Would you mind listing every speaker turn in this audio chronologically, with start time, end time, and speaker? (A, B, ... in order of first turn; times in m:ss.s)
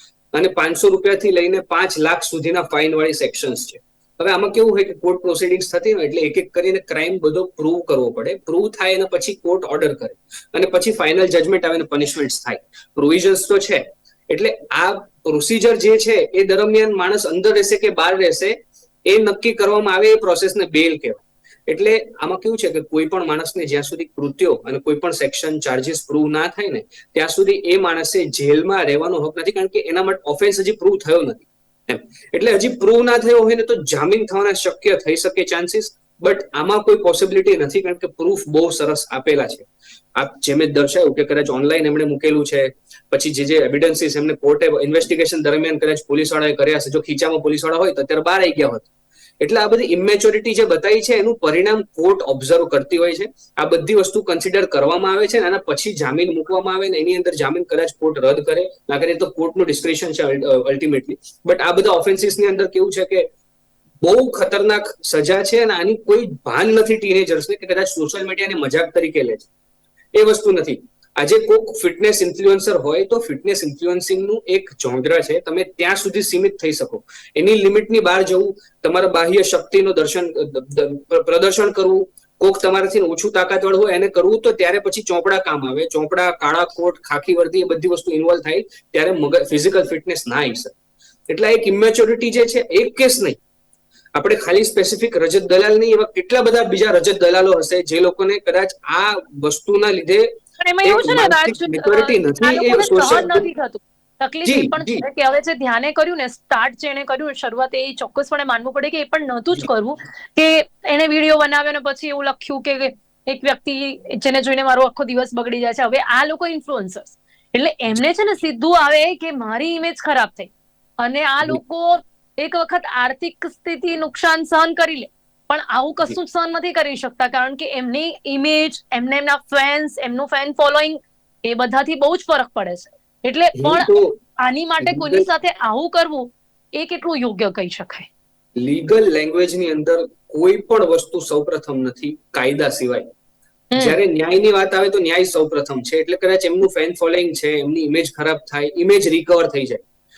0:00.3-1:03.3 A
1:04.0-1:09.5 A
1:10.1-1:30.8 A
1:31.3-1:33.4 A
1:34.2-1:43.5 A
1:40.6-2:00.5 B
1:44.4-1:45.1 A
2:01.0-2:13.9 B
2:13.6-2:14.2 A
2:14.4-2:18.1 B
2:14.8-2:15.3 A
2:18.6-2:23.1 A
2:23.7-2:24.0 B
2:23.8-2:29.8 A